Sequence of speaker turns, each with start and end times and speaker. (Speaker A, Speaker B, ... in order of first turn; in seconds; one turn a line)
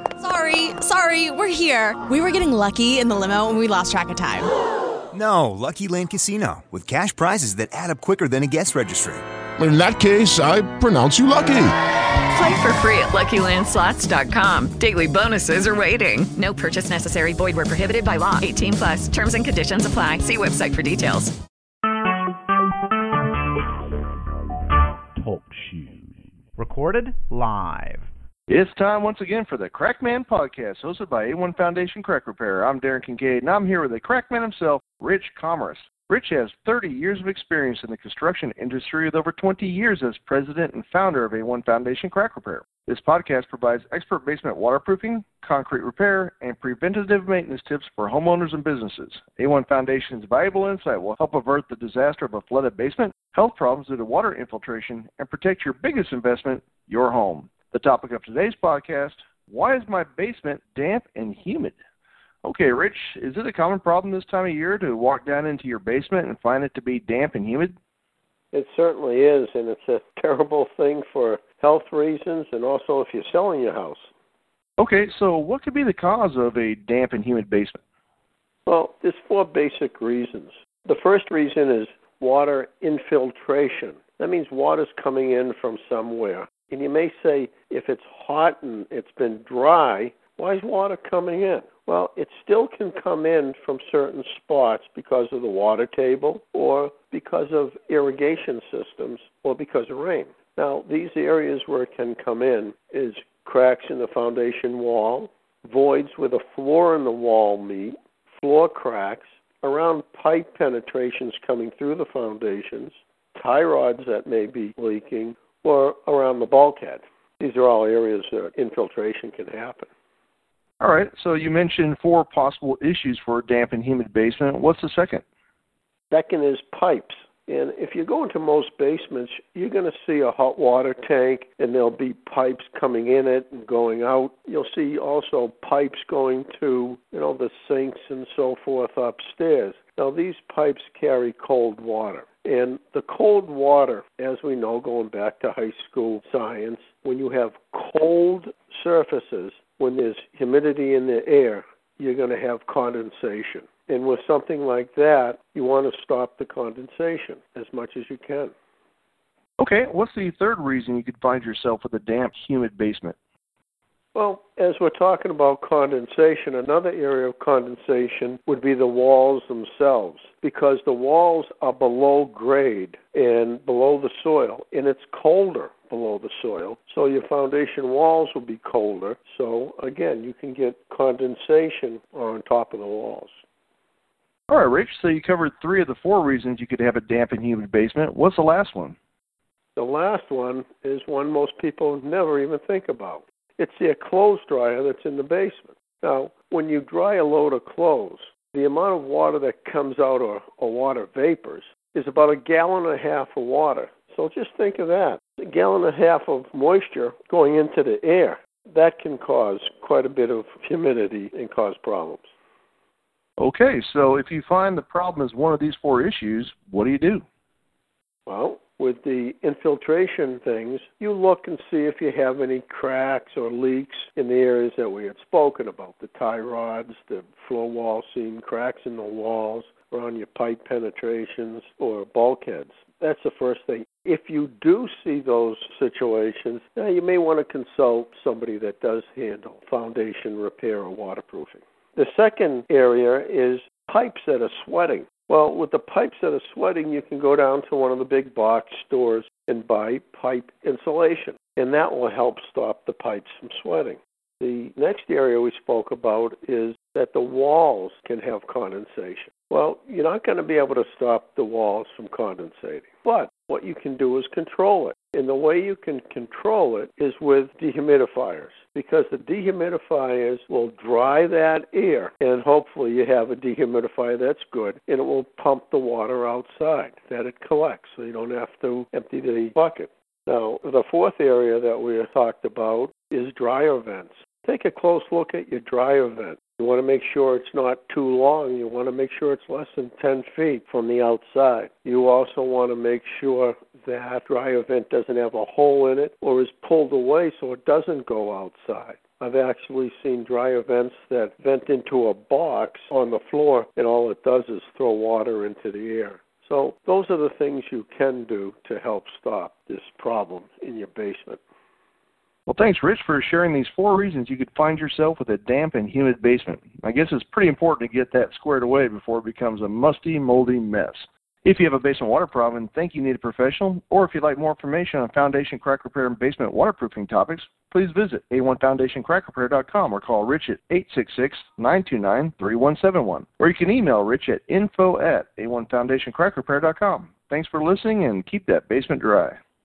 Speaker A: 0.2-4.5
Speaker B: 5.1-9.2
Speaker C: 9.6-11.7
Speaker D: 12.3-21.3
Speaker E: 25.2-28.1
Speaker F: 28.5-61.8
Speaker F: 62.4-67.7
Speaker G: 68.5-74.1
Speaker F: 74.8-77.8
Speaker G: 78.7-119.9
Speaker F: 120.8-125.2
Speaker G: 126.1-158.5
Speaker F: 159.6-163.2
Speaker G: 164.1-183.3
Speaker F: 184.5-188.9
Speaker G: 189.8-212.2
Speaker F: 213.4-217.2
Speaker G: 218.3-311.4
Speaker F: 312.4-339.4